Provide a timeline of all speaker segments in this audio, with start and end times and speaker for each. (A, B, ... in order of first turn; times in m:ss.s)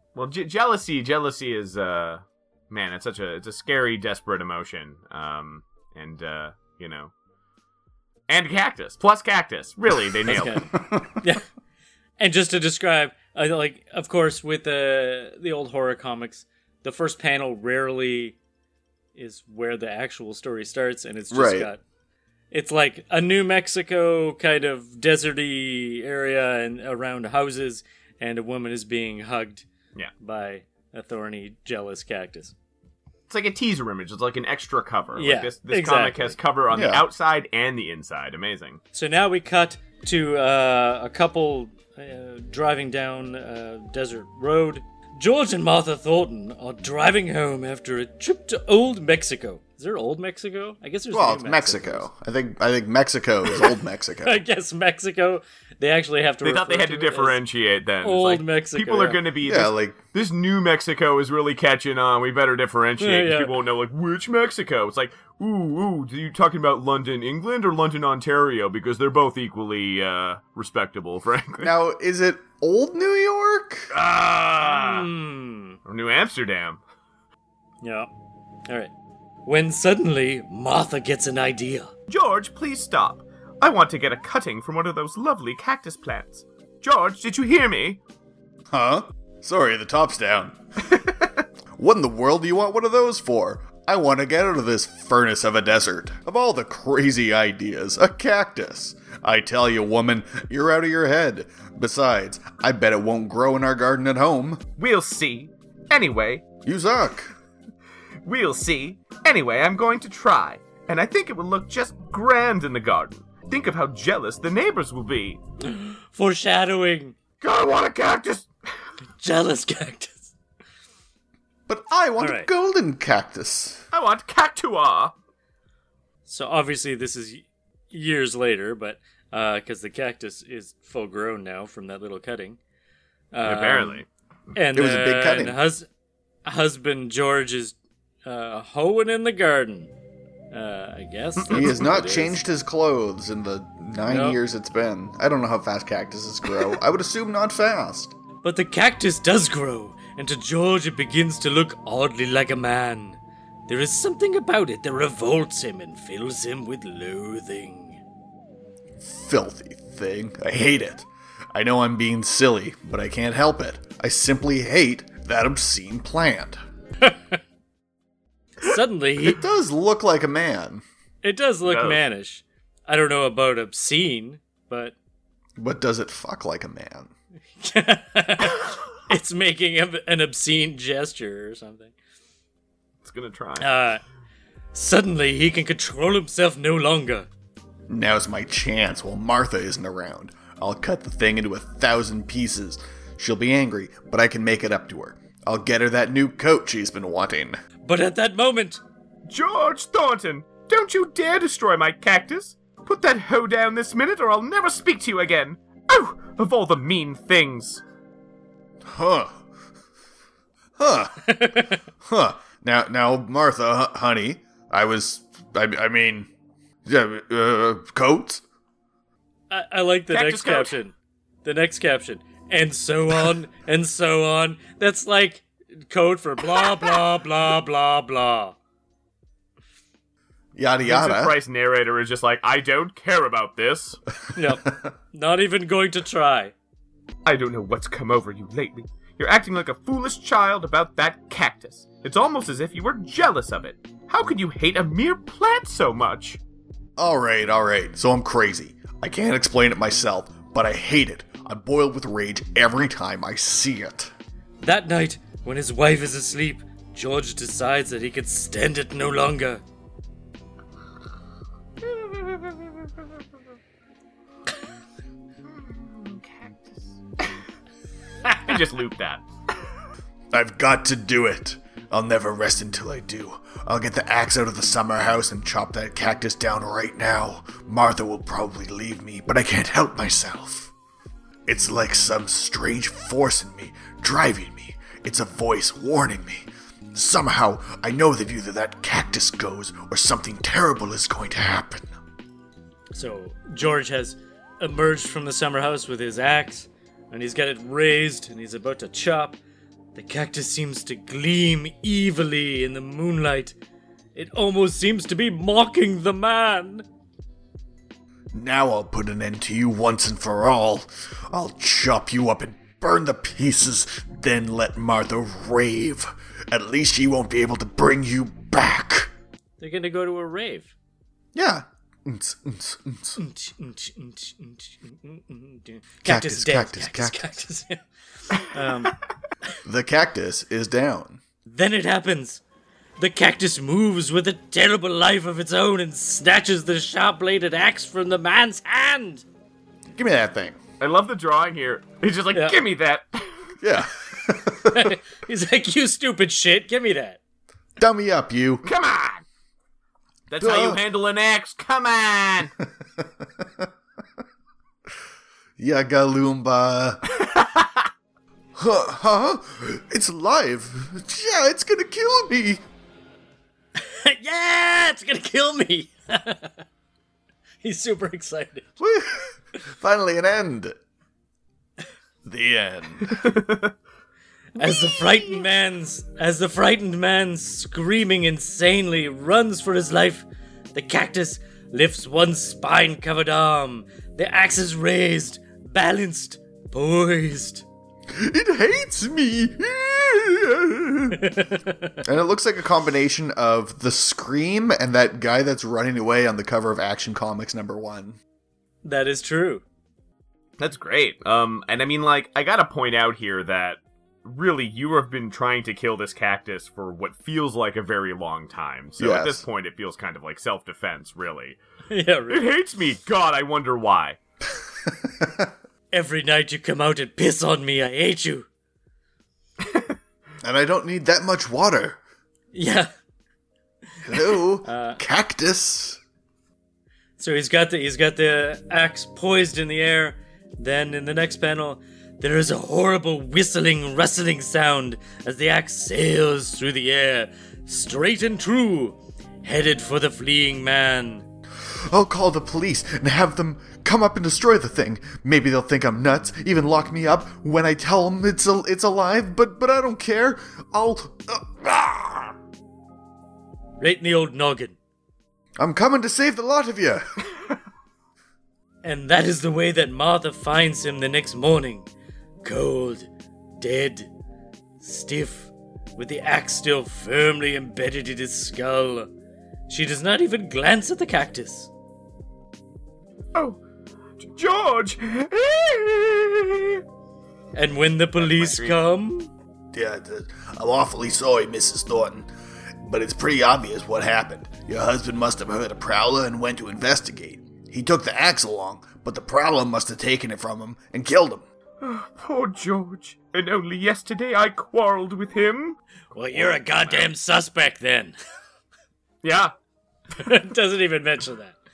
0:00.1-0:07.1 A
0:08.3-0:10.7 A
0:10.3-0:11.4 B
0:10.7-0:11.2 C
0:12.2-0:18.4 B
0:19.1-0:21.8 B
0:21.3-0:21.7 C
0:22.5-0:29.7 B
0:30.2-0:32.5 B
0:33.3-0:38.8 A
0:35.2-0:36.3 B
0:36.7-0:37.1 C
0:38.9-0:52.1 B
0:51.1-0:54.4 C
0:54.2-0:57.4 B
0:56.4-1:11.7 A
0:58.0-0:59.2 B
0:59.4-1:00.0 C
1:03.0-1:03.5 B
1:11.6-1:13.9 C
1:13.9-1:15.1 A
1:14.6-1:15.8 B
1:15.8-1:16.8 A
1:17.8-1:18.1 B
1:19.4-1:21.9 B
1:22.1-1:28.0 A
1:28.7-1:30.6 C
1:30.9-1:31.3 A
1:31.8-1:44.6 C
1:44.8-1:46.5 A
1:46.6-1:47.3 C
1:48.2-1:55.4 A
1:55.6-1:57.2 B
1:57.4-1:58.5 A
1:59.2-2:00.3 B
2:01.7-2:03.8 C
2:02.2-2:02.5 B
2:03.9-2:05.1 A
2:06.2-2:12.6 B
2:13.3-2:14.0 B
2:13.4-2:14.1 A
2:14.5-2:15.9 B
2:14.7-2:15.6 C
2:16.4-2:19.9 B
2:20.5-2:22.4 B
2:21.4-2:21.9 A
2:21.5-2:28.1 C
2:24.1-2:24.4 B
2:28.4-2:38.0 B
2:39.0-2:46.6 C
2:47.0-2:47.4 B
2:48.6-2:49.4 B
2:49.2-2:50.8 C
2:51.2-2:55.0 B
2:51.6-2:52.0 A
2:55.6-2:57.1 C
2:57.6-3:01.9 B
3:03.0-3:03.7 A
3:03.6-3:04.0 B
3:04.7-3:07.3 B
3:07.9-3:17.6 C
3:17.8-3:18.8 B
3:19.3-3:27.8 A
3:28.9-3:29.4 C
3:30.8-3:31.4 C
3:31.2-3:31.8 B
3:32.0-3:36.3 C
3:36.8-3:38.4 C
3:39.5-3:48.6 B
3:40.1-3:40.8 A
3:50.5-3:51.4 C
3:50.8-3:54.0 A
3:54.3-3:56.5 B
3:57.2-4:06.4 A
4:07.0-4:14.1 C
4:14.6-4:19.6 B
4:21.8-4:22.8 A
4:25.4-4:27.3 A
4:28.3-4:29.2 A
4:30.3-4:40.7 C
4:41.4-4:51.9 C
4:52.9-4:59.4 B
4:59.9-5:03.6 B
5:04.1-5:06.8 B
5:08.3-5:19.1 C
5:19.6-5:20.7 B
5:21.3-5:23.2 C
5:23.2-5:29.0 B
5:26.0-5:27.4 C
5:29.6-5:31.2 C
5:31.4-5:32.4 B
5:33.0-5:39.2 B
5:39.9-5:40.6 C
5:40.8-5:43.5 A
5:42.3-5:42.6 B
5:43.6-5:44.9 C
5:44.6-5:47.2 B
5:47.8-5:48.6 C
5:48.6-5:49.2 A
5:50.3-5:52.5 A
5:50.4-5:50.8 C
5:53.0-5:53.7 C
5:55.6-5:57.0 C
5:57.1-5:57.9 A
5:58.6-6:02.6 C
6:03.8-6:06.6 B
6:07.6-6:08.6 B
6:08.8-6:10.8 C
6:12.2-6:13.3 C
6:13.1-6:13.7 A
6:14.6-6:27.6 B
6:14.6-6:15.4 A
6:28.1-6:31.3 C
6:31.1-6:32.0 B
6:32.0-6:38.2 C
6:38.8-6:39.6 B
6:40.6-6:51.6 A
6:49.0-6:49.4 C
6:51.9-6:52.5 B
6:52.3-6:54.2 A
6:55.0-6:55.5 C
6:55.9-6:58.5 B
7:00.4-7:02.0 C
7:02.5-7:02.9 B
7:04.0-7:06.0 C
7:04.1-7:05.0 B
7:07.2-7:21.3 B
7:21.7-7:32.3 C
7:33.8-7:34.8 B
7:35.6-7:37.0 C
7:38.8-7:41.9 B
7:42.4-7:44.1 B
7:44.8-7:49.1 B
7:49.7-7:51.7 B
7:53.3-7:53.6 A
7:54.2-7:56.8 A
7:57.6-7:59.3 B
7:58.2-7:58.8 A
7:59.7-8:02.3 C
8:02.8-8:11.4 C
8:11.8-8:15.8 A
8:16.1-8:18.1 B
8:16.3-8:17.1 A
8:19.2-8:19.5 A
8:20.2-8:21.6 B